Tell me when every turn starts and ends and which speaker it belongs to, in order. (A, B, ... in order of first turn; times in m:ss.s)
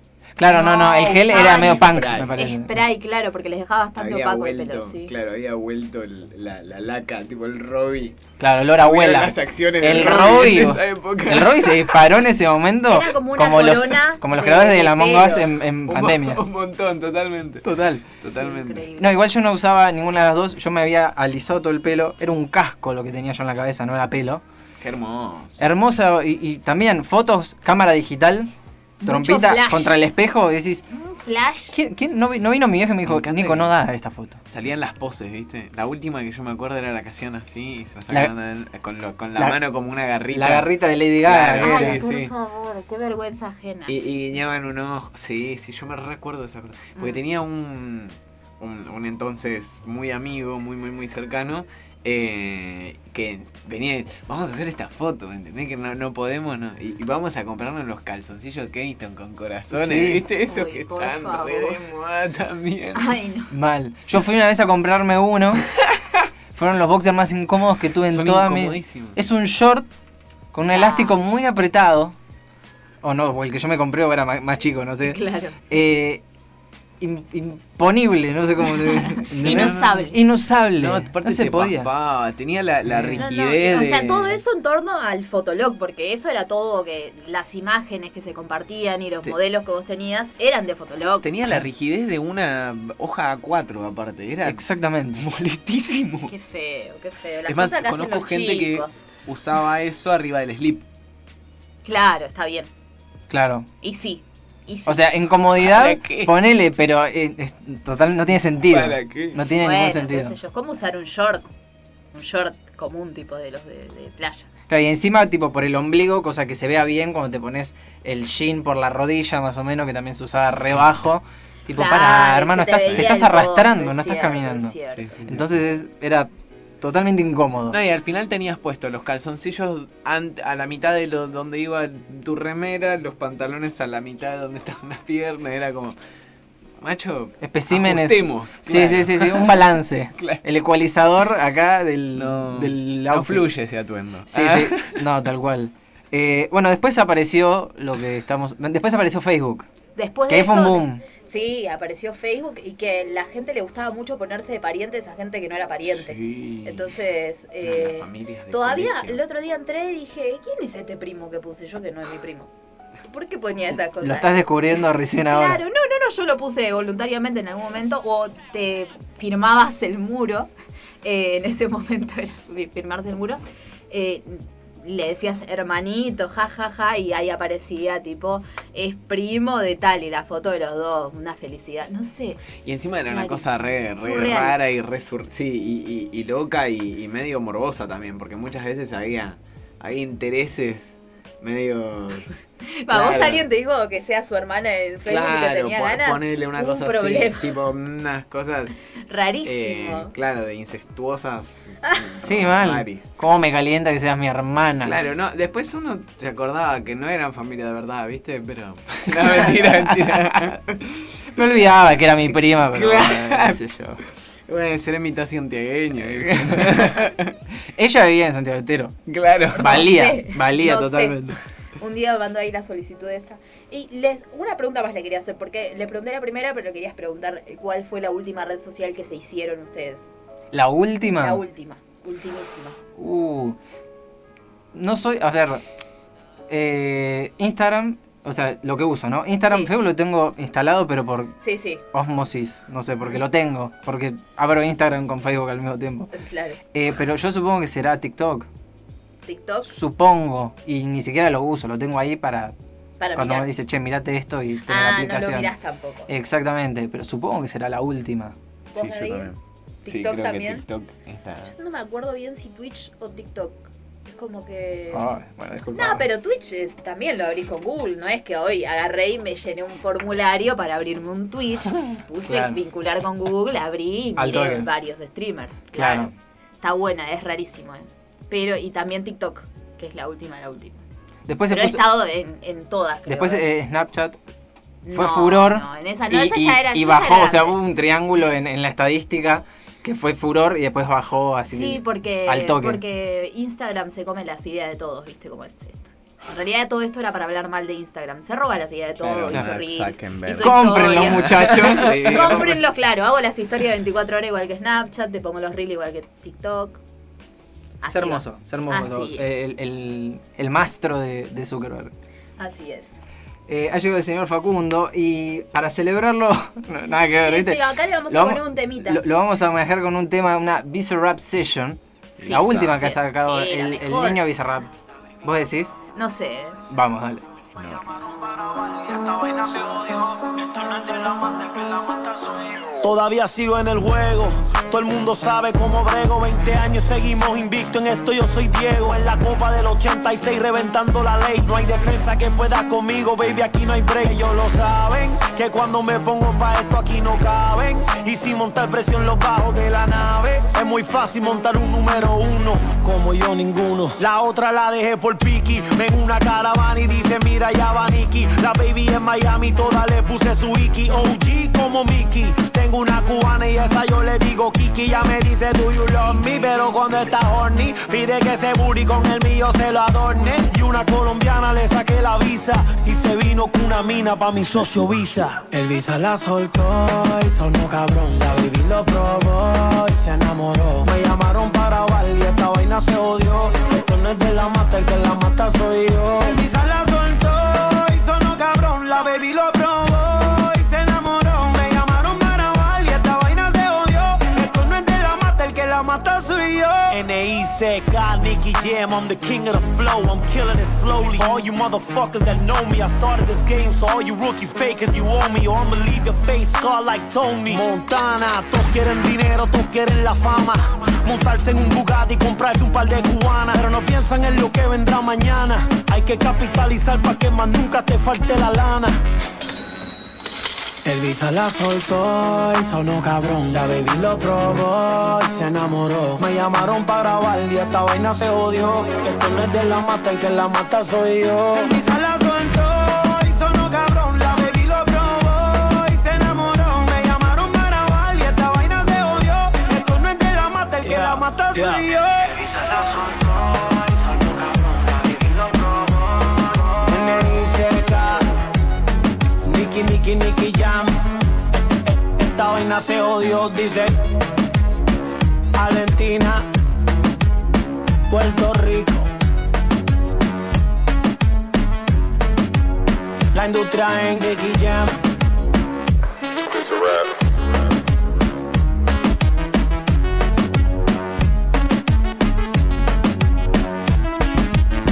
0:00.4-0:02.8 A
0:00.4-0:05.1 B
0:01.1-0:02.4 C
0:04.0-0:08.2 C
0:08.4-0:16.4 A
0:08.7-0:12.1 C
0:12.9-0:15.6 B
0:15.9-0:17.7 C
0:17.6-0:18.0 A
0:18.2-0:18.8 C
0:18.4-0:19.2 B
0:19.0-0:24.4 A
0:24.8-0:25.6 C
0:25.6-0:28.5 A
0:29.0-0:30.0 B
0:29.0-0:30.8 A
0:30.9-0:31.8 B
0:31.7-0:34.4 A
0:33.0-0:33.7 C
0:34.5-0:40.7 C
0:40.3-0:42.0 A
0:41.2-0:42.3 C
0:41.6-0:43.9 B
0:43.9-1:03.2 C
0:59.7-1:00.2 A
1:00.4-1:01.8 B
1:02.9-1:03.5 B
1:03.5-1:05.7 A
1:06.5-1:09.9 A
1:08.1-1:09.2 C
1:10.5-1:12.2 A
1:10.7-1:11.2 B
1:13.0-1:16.2 A
1:15.0-1:15.6 B
1:17.0-1:21.9 A
1:18.7-1:20.2 B
1:19.3-1:20.0 C
1:20.8-1:24.4 C
1:22.9-1:23.3 A
1:23.2-1:31.3 B
1:31.2-1:36.3 C
1:34.4-1:35.3 A
1:36.3-1:39.0 B
1:37.5-1:40.8 C
1:41.8-1:42.7 B
1:43.3-1:43.7 A
1:43.8-1:45.0 B
1:44.8-1:50.3 A
1:45.6-1:46.3 C
1:48.6-1:49.4 C
1:49.6-1:51.5 B
1:52.1-1:54.5 B
1:54.7-2:04.8 A
2:01.7-2:05.1 B
2:04.9-2:05.6 C
2:05.3-2:07.8 A
2:07.7-2:16.0 C
2:16.8-2:19.6 C
2:17.4-2:23.5 A
2:20.2-2:20.4 C
2:22.1-2:25.0 C
2:24.3-2:29.6 A
2:30.0-2:42.5 B
2:30.3-2:31.0 A
2:35.8-2:36.9 C
2:37.6-2:39.2 C
2:43.0-2:50.5 B
2:44.0-2:45.6 A
2:51.0-3:02.4 B
3:02.6-3:12.4 C
3:03.1-3:04.6 B
3:12.6-3:17.5 B
3:12.9-3:13.5 C
3:15.0-3:23.1 C
3:19.0-3:20.1 B
3:22.2-3:25.0 A
3:24.8-3:30.8 C
3:29.1-3:30.6 A
3:31.3-3:34.0 A
3:32.7-3:33.6 C
3:34.5-3:37.4 C
3:36.7-3:37.0 A
3:37.7-3:39.0 A
3:39.1-3:39.8 C
3:39.6-3:41.2 B
3:39.6-3:41.4 A
3:41.8-3:50.1 B
3:50.5-3:51.4 A
3:51.1-3:52.8 B
3:53.0-3:53.6 A
3:54.7-3:55.6 A
3:56.5-4:01.3 A
3:59.4-3:59.7 B
4:01.4-4:01.8 B
4:01.9-4:06.1 A
4:06.1-4:06.6 B
4:06.7-4:08.5 A
4:09.2-4:09.7 B
4:09.6-4:12.5 A
4:13.0-4:13.5 B
4:13.1-4:15.5 A
4:14.6-4:16.1 B
4:16.1-4:18.3 A
4:18.7-4:19.3 B
4:18.7-4:21.5 C
4:19.8-4:20.6 B
4:21.4-4:25.1 B
4:24.9-4:26.1 A
4:25.7-4:40.8 B
4:32.3-4:32.6 A
4:34.2-4:34.7 A
4:35.7-4:36.1 A
4:41.3-4:41.9 A
4:41.5-4:43.5 B
4:43.1-4:44.2 A
4:44.8-4:47.6 B
4:44.9-4:52.8 A
4:51.5-5:06.8 B
4:59.0-5:02.4 C
5:00.4-5:02.6 A
5:07.8-5:09.4 B
5:07.9-5:11.9 A
5:12.4-5:13.0 B
5:13.5-5:24.7 A
5:17.2-5:19.0 B
5:22.2-5:24.2 B
5:22.2-5:22.7 C
5:25.2-5:25.8 A
5:25.9-5:26.6 B
5:26.7-5:27.2 A
5:27.6-5:27.8 C
5:27.7-6:59.0 D
7:00.8-7:28.3 D
7:29.4-7:31.0 D
7:31.8-7:34.0 D
7:35.5-7:36.5 D
7:38.1-7:39.1 D
7:43.3-7:45.0 D